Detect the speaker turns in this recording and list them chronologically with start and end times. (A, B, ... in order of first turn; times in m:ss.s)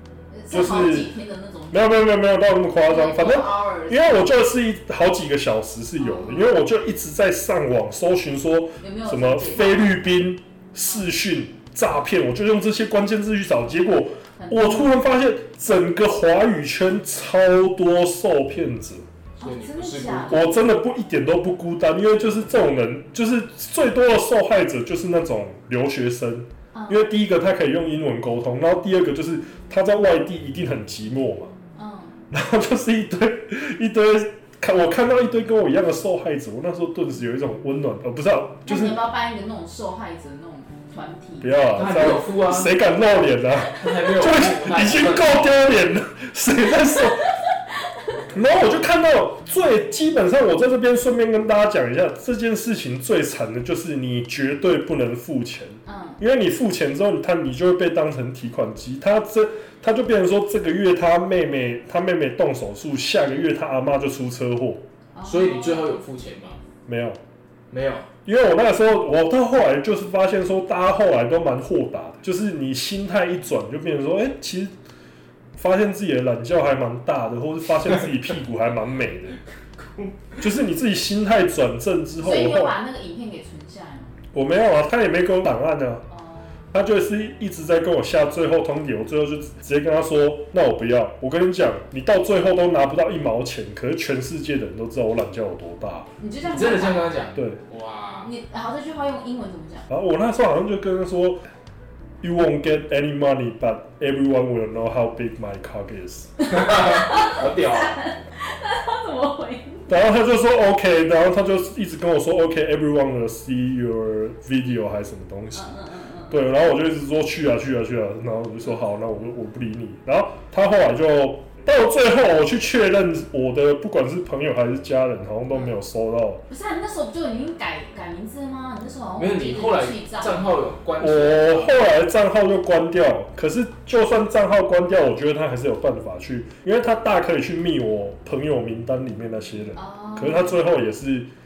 0:00.3-0:02.1 A
0:00.5-0:01.1 B
0:01.7-0:19.1 B
0:02.9-0:04.3 A
0:06.0-0:06.6 A
0:08.8-0:10.1 A
0:14.4-0:15.0 A
0:19.4-0:20.6 A
0:19.4-0:20.5 C
0:20.3-0:31.5 B
0:26.7-0:27.1 A
0:31.8-0:32.2 A
0:32.3-0:39.0 B
0:38.7-0:41.6 A
0:41.4-0:47.3 B
0:41.8-0:42.7 C
0:43.8-0:45.6 C
0:48.3-1:04.8 B
0:55.9-0:56.2 A
1:05.1-1:05.9 A
1:05.2-1:06.6 C
1:06.9-1:07.2 B
1:07.7-1:08.1 C
1:08.2-1:14.7 B
1:15.6-1:19.4 B
1:19.7-1:20.4 C
1:20.4-1:22.8 B
1:22.2-1:24.2 A
1:24.3-1:26.0 B
1:26.1-1:26.6 A
1:26.7-1:36.1 B
1:36.2-1:37.2 A
1:36.4-1:38.3 C
1:37.4-1:37.6 B
1:38.2-1:39.9 A
1:39.9-1:41.4 B
1:42.2-1:46.4 B
1:46.4-1:49.9 A
1:46.5-1:48.0 C
1:49.9-1:55.8 B
1:55.5-1:56.4 A
1:56.3-2:06.4 B
2:05.5-2:05.8 A
2:06.5-2:10.5 A
2:09.2-2:11.8 C
2:11.0-2:21.3 B
2:19.8-2:20.6 A